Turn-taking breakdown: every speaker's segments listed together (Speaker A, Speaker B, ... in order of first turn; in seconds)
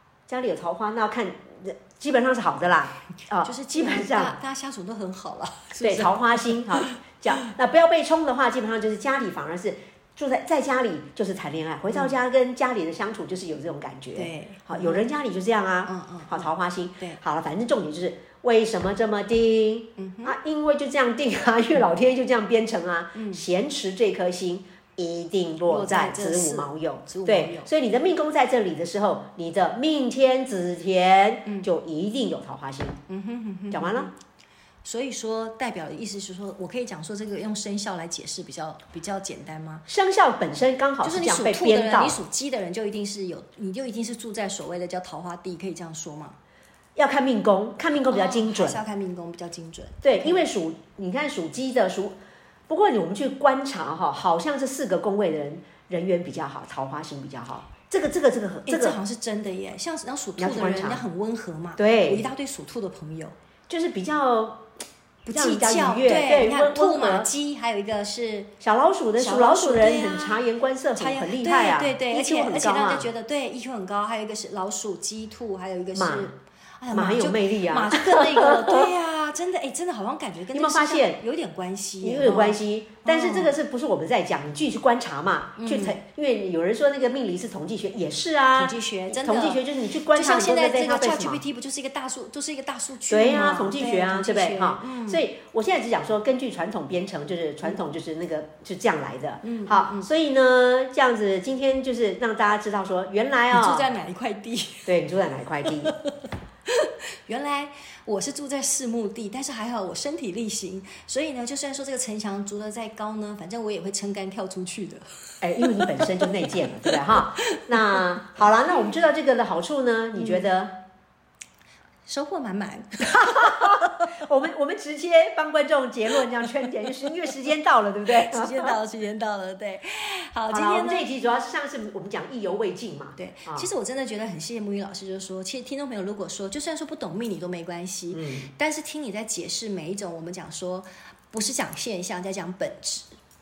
Speaker A: 0.3-4.4, 5.8-33.0, 33.7-34.1, 39.9-42.2, 47.0-48.8, 50.0-52.1, 52.7-59.0, 60.4-61.0, 61.8-62.3, 63.7-64.7, 65.3-67.3, 68.6-73.1, 75.9-76.3, 76.9-78.8, 80.5-81.2, 82.0-91.4, 93.1-103.9, 104.8-105.9, 115.4-120.7, 123.0-128.7, 130.5-133.7, 138.1-138.5
Speaker B: 3.4-7.5, 14.1-15.1, 15.8-16.5, 20.0-20.3, 23.1-23.4, 25.6-27.7, 33.1-34.1, 34.8-39.9, 41.0-46.4, 48.1-50.4, 58.6-63.3, 65.2-68.5, 69.2-70.4, 71.0-83.5, 85.6-86.0, 88.5-95.2, 99.4-100.1, 103.5-104.9, 105.6-106.2, 106.7-115.1, 115.6-116.3, 116.9-118.0, 122.1-124.1, 128.1-131.1, 133.2-143.2